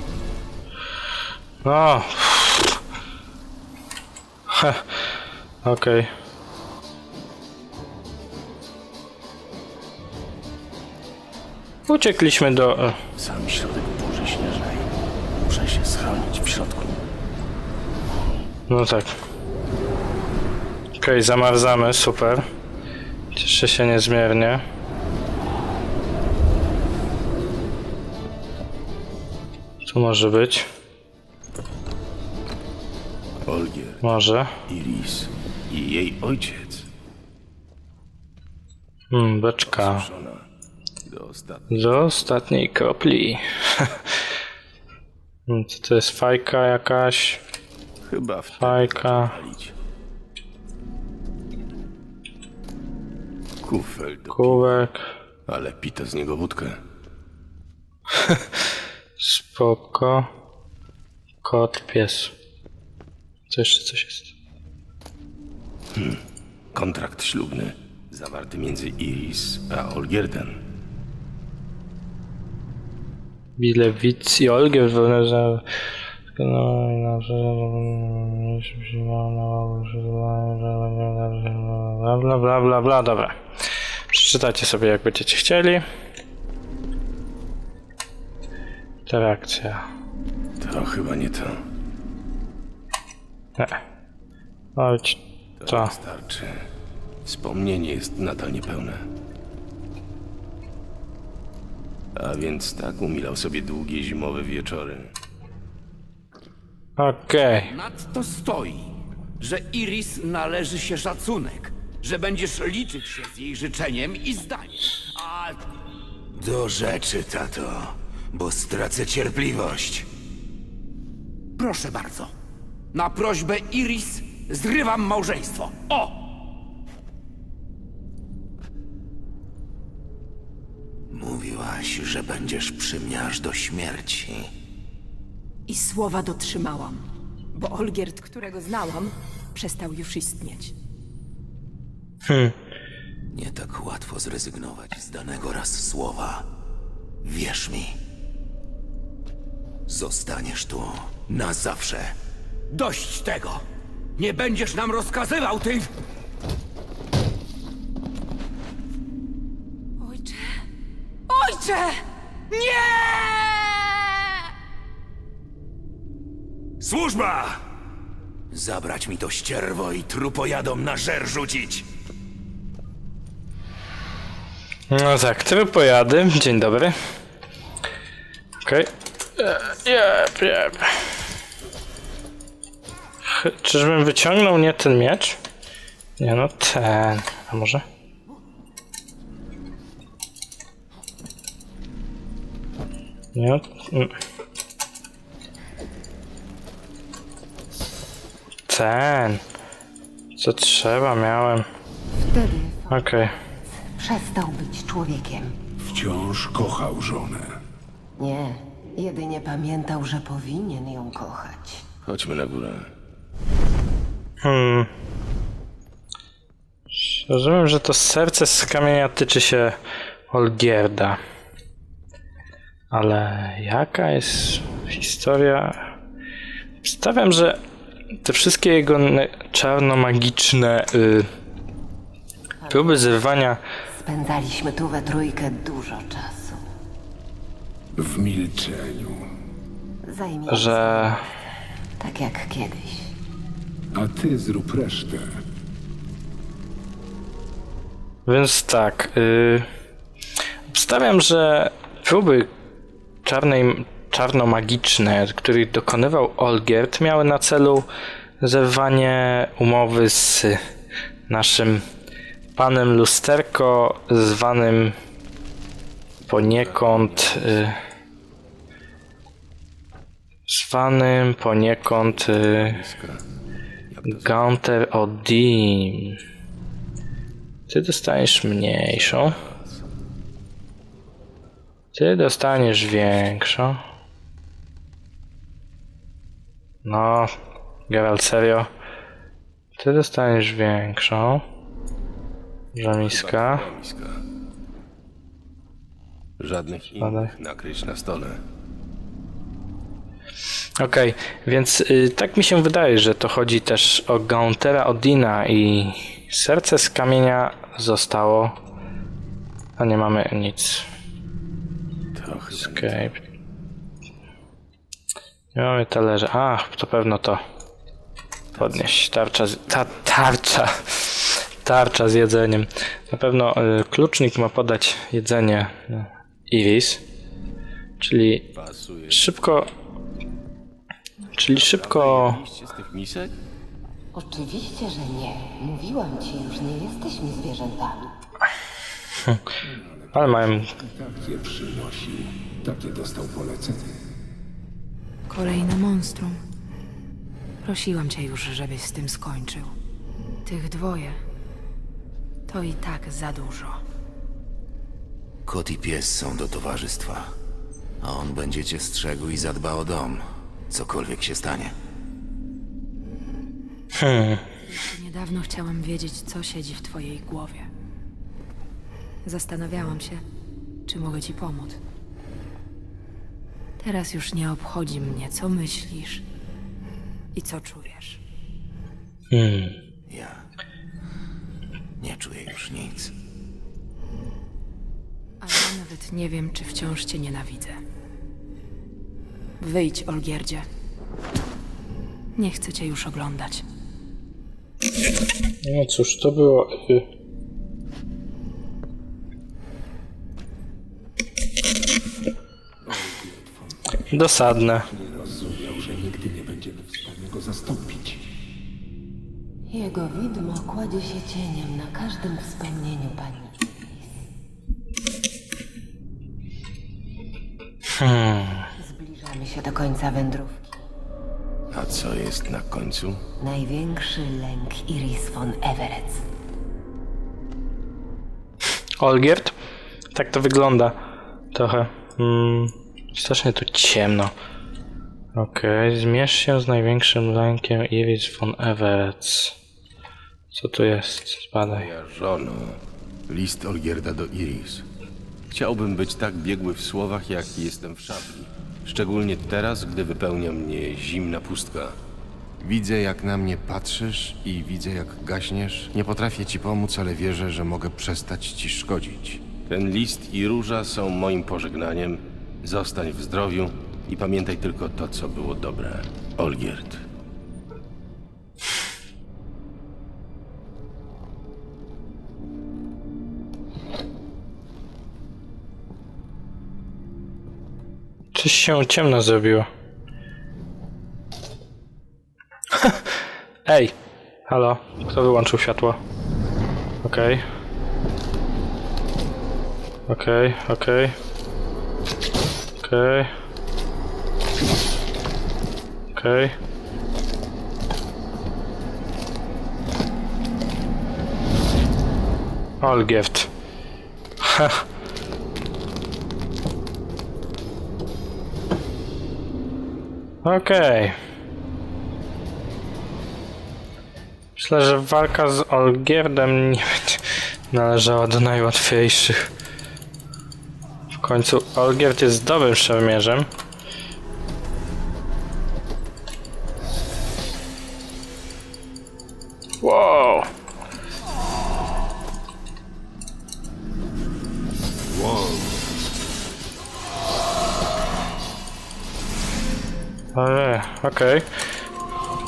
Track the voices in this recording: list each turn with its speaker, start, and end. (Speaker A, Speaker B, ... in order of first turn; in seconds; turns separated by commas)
Speaker A: 1.6-2.8, Speaker A: 4.5-5.1, Speaker A: 5.6-6.1, Speaker A: 11.9-13.0, Speaker B: 13.2-14.8, Speaker B: 15.5-16.9, Speaker A: 18.7-19.1, Speaker A: 21.0-22.5, Speaker A: 23.4-24.6, Speaker A: 29.9-30.7, Speaker B: 33.4-36.9, Speaker A: 34.0-34.5, Speaker A: 39.1-40.1, Speaker B: 39.7-40.5, Speaker B: 41.0-42.3, Speaker A: 41.7-44.0, Speaker A: 45.5-47.4, Speaker B: 48.0-49.8, Speaker A: 48.6-49.3, Speaker B: 53.6-54.8, Speaker A: 54.3-55.1, Speaker B: 55.5-56.8, Speaker A: 58.1-58.6, Speaker A: 59.2-60.3, Speaker A: 61.4-62.3, Speaker A: 63.5-64.3, Speaker B: 65.9-70.6, Speaker A: 73.6-75.7, Speaker A: 76.3-83.4, Speaker A: 84.1-85.9, Speaker A: 89.1-89.8, Speaker B: 90.6-91.6, Speaker A: 94.8-95.9, Speaker B: 95.6-96.7, Speaker B: 97.2-99.1, Speaker B: 102.2-105.2, Speaker A: 107.0-107.7, Speaker C: 107.6-115.7, Speaker D: 116.3-120.1, Speaker C: 121.6-122.3, Speaker C: 122.9-126.3, Speaker D: 131.1-134.5, Speaker E: 135.7-137.0, Speaker E: 137.6-140.7, Speaker A: 142.3-142.6, Speaker D: 143.3-146.5, Speaker D: 147.2-148.0, Speaker D: 149.9-152.2, Speaker C: 152.7-153.6, Speaker C: 154.2-155.9, Speaker E: 160.0-160.6, Speaker E: 161.3-164.4, Speaker D: 166.8-167.6, Speaker D: 168.5-171.9, Speaker A: 174.9-177.0, Speaker A: 178.7-181.0, Speaker A: 183.3-185.4, Speaker A: 186.2-187.8, Speaker A: 193.3-194.2, Speaker A: 198.7-199.4, Speaker A: 200.4-201.7, Speaker F: 202.2-205.6, Speaker A: 202.9-203.3, Speaker G: 205.8-207.6, Speaker F: 208.2-211.8, Speaker B: 212.1-212.9, Speaker A: 214.4-214.9, Speaker A: 216.9-219.8, Speaker A: 220.3-221.2, Speaker A: 222.9-225.8, Speaker A: 226.8-227.6, Speaker A: 228.2-231.3, Speaker F: 232.6-233.1, Speaker A: 232.7-233.6, Speaker F: 233.9-236.6, Speaker G: 237.9-239.3, Speaker F: 240.0-243.1, Speaker A: 240.5-241.2, Speaker G: 243.9-245.4, Speaker A: 248.3-249.7, Speaker A: 250.7-252.5, Speaker A: 253.2-257.9, Speaker A: 258.4-260.6, Speaker A: 261.3-261.9, Speaker A: 262.6-265.0, Speaker B: 266.2-267.8, Speaker A: 266.3-267.8, Speaker A: 270.5-272.8, Speaker B: 272.2-273.2, Speaker B: 273.9-274.4, Speaker A: 274.1-276.2, Speaker A: 277.7-279.4, Speaker B: 278.8-279.9, Speaker A: 281.9-283.8, Speaker A: 286.9-287.3, Speaker A: 287.9-288.7, Speaker A: 289.8-291.4, Speaker A: 292.8-293.6, Speaker B: 293.1-294.2, Speaker B: 296.4-298.4, Speaker A: 297.0-297.3, Speaker A: 300.8-308.5, Speaker A: 309.8-310.9, Speaker B: 312.1-313.1, Speaker A: 312.6-313.2, Speaker A: 315.6-317.4, Speaker B: 318.5-319.0, Speaker A: 318.6-327.0, Speaker A: 328.0-328.5, Speaker B: 328.5-329.3, Speaker A: 329.1-329.7, Speaker A: 331.4-332.4, Speaker B: 331.4-333.4, Speaker F: 334.1-338.1, Speaker G: 339.6-344.0, Speaker A: 340.1-340.7, Speaker H: 345.3-346.4, Speaker H: 347.6-349.8, Speaker H: 350.4-351.2, Speaker H: 352.5-353.8, Speaker D: 355.5-357.3, Speaker D: 358.0-361.7, Speaker A: 364.0-364.4, Speaker H: 364.7-367.7, Speaker H: 369.2-370.2, Speaker H: 370.9-371.8, Speaker H: 373.8-376.2, Speaker H: 377.3-378.2, Speaker A: 379.3-379.8, Speaker D: 380.1-380.4, Speaker D: 382.0-383.1, Speaker H: 385.4-387.8, Speaker H: 389.6-390.7, Speaker H: 392.4-393.6, Speaker A: 395.6-397.1, Speaker G: 402.8-404.0, Speaker A: 404.1-404.9, Speaker G: 404.7-408.2, Speaker F: 409.7-414.2, Speaker A: 417.9-418.7, Speaker F: 418.8-420.9, Speaker B: 421.7-423.2, Speaker F: 423.4-426.2, Speaker A: 429.0-429.6, Speaker A: 430.1-431.0, Speaker A: 431.5-434.3, Speaker A: 435.4-439.6, Speaker A: 440.5-441.9, Speaker B: 441.6-444.9, Speaker B: 445.5-452.0, Speaker B: 452.6-467.1, Speaker A: 478.3-479.7, Speaker A: 482.7-483.9, Speaker A: 484.5-486.0, Speaker A: 487.0-487.4, Speaker A: 490.1-491.2, Speaker A: 492.8-493.3, Speaker A: 496.1-496.6, Speaker A: 502.8-503.5, Speaker A: 504.4-504.8, Speaker A: 510.4-511.2, Speaker A: 514.6-519.4, Speaker A: 521.1-523.5, Speaker A: 529.8-530.5, Speaker A: 540.4-541.5